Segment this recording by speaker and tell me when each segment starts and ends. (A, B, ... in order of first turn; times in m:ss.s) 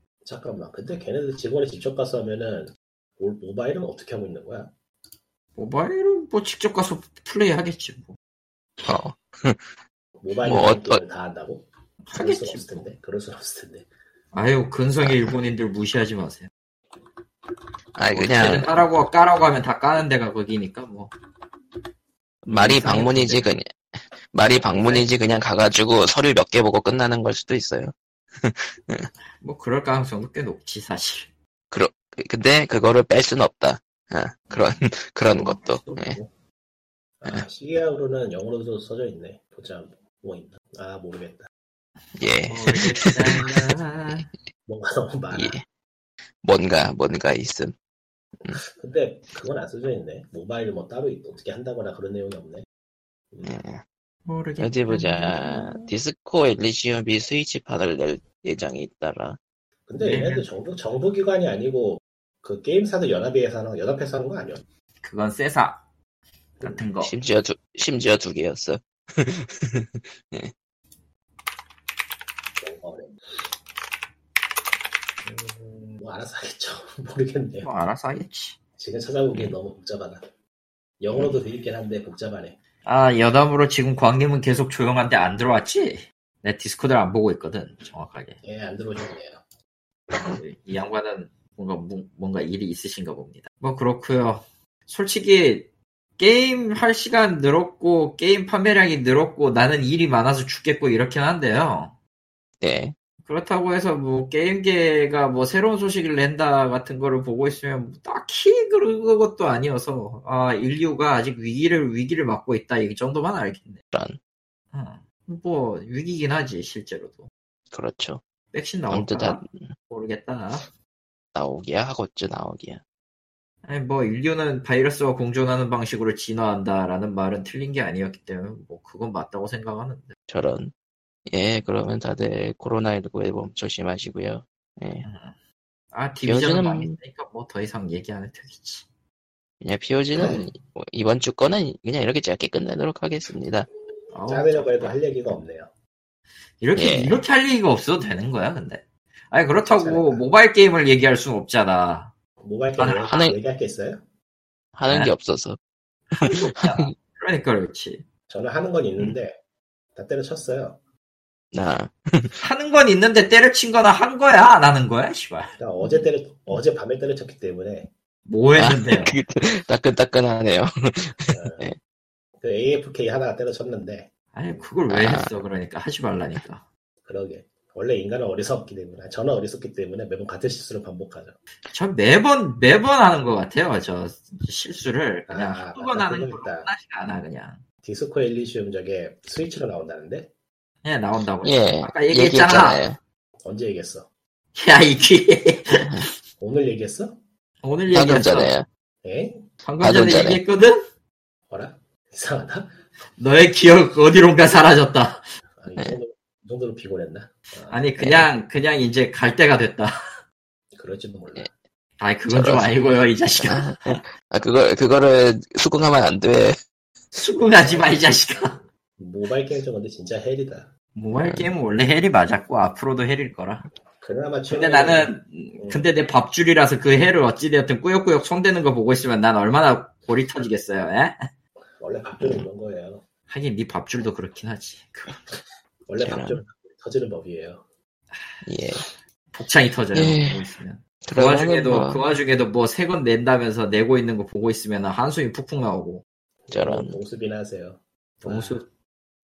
0:00.2-0:04.7 A
0:05.6-0:08.2 B
0:08.8-0:09.7 C
0:10.2-0:13.9 A
0:10.5-0:11.0 C
0:12.0-0:12.9 B
0:14.3-0:16.5 B
0:15.0-0:15.4 C
0:18.0-0:18.7 C
0:18.1-0:21.1 B
0:22.4-0:23.7 C
0:22.5-0:23.5 B
0:24.2-0:29.1 C
0:24.7-0:25.0 B
0:29.4-0:31.3 B
0:31.7-0:36.2 C
0:35.3-0:36.3 A
0:37.2-0:41.5 A
0:42.2-0:43.5 C
0:42.5-0:44.3 B
0:44.7-0:45.6 A
0:45.3-0:45.6 C
0:46.4-0:47.7 C
0:48.6-0:52.7 A
0:53.3-0:53.6 A
0:53.4-0:53.8 C
0:54.2-0:55.9 B
0:54.6-0:59.4 C
0:59.9-1:04.6 A
1:00.0-1:00.5 B
1:05.0-1:05.8 B
1:06.6-1:07.1 B
1:07.0-1:10.5 C
1:12.6-1:13.2 A
1:15.2-1:17.7 A
1:17.6-1:18.6 B
1:18.8-1:20.2 A
1:21.0-1:22.6 A
1:22.8-1:28.4 B
1:28.4-1:29.4 A
1:30.2-1:42.0 B
1:42.6-1:43.0 C
1:43.2-1:53.8 B
1:53.9-1:54.2 C
1:54.7-1:57.3 B
1:57.7-1:58.2 C
1:58.5-2:00.7 B
1:58.9-1:59.7 C
2:01.4-2:02.8 C
2:03.6-2:10.2 B
2:10.3-2:10.7 C
2:11.3-2:15.0 C
2:15.0-2:15.4 B
2:15.9-2:18.9 B
2:16.2-2:17.0 C
2:19.6-2:23.7 C
2:20.2-2:20.5 A
2:24.1-2:25.0 B
2:24.3-2:25.7 A
2:26.6-2:32.1 B
2:26.8-2:27.2 C
2:29.6-2:30.3 A
2:32.4-2:34.0 A
2:32.8-2:33.2 B
2:33.1-2:33.4 C
2:34.8-2:35.6 C
2:34.9-2:35.1 B
2:36.1-2:38.0 B
2:36.2-2:36.9 C
2:38.3-2:39.4 A
2:40.0-2:40.8 A
2:41.5-2:42.4 C
2:42.4-2:45.6 B
2:45.6-2:47.9 A
2:48.3-2:49.2 B
2:48.6-2:51.8 C
2:51.3-2:51.7 A
2:52.4-2:54.1 A
2:54.3-2:56.7 B
2:54.9-2:55.3 C
2:57.0-3:01.4 A
3:01.7-3:07.6 B
3:05.3-3:06.7 A
3:07.8-3:10.3 A
3:10.8-3:12.8 B
3:11.4-3:13.0 C
3:13.4-3:14.1 A
3:14.6-3:16.1 B
3:16.4-3:17.2 A
3:17.6-3:18.5 B
3:17.9-3:18.7 C
3:19.0-3:19.5 A
3:19.6-3:20.8 B
3:19.8-3:20.4 C
3:21.5-3:22.8 A
3:23.2-3:25.3 B
3:25.6-3:27.9 A
3:27.7-3:30.2 B
3:28.0-3:28.3 C
3:30.7-3:31.5 A
3:32.0-3:34.0 B
3:32.3-3:36.6 C
3:37.1-3:38.6 B
3:37.6-3:40.7 A
3:41.0-3:43.7 B
3:41.2-3:41.5 C
3:44.0-3:45.9 A
3:44.5-3:51.2 B
3:51.8-3:53.1 A
3:52.2-3:52.4 C
3:53.3-3:55.2 B
3:55.9-3:57.7 A
3:56.0-3:56.4 C
3:58.1-3:58.4 B
3:58.4-3:58.8 C
3:59.3-4:06.0 B
3:59.9-4:00.4 C
4:01.1-4:02.0 C
4:06.5-4:08.6 A
4:06.5-4:07.0 C
4:08.2-4:08.7 B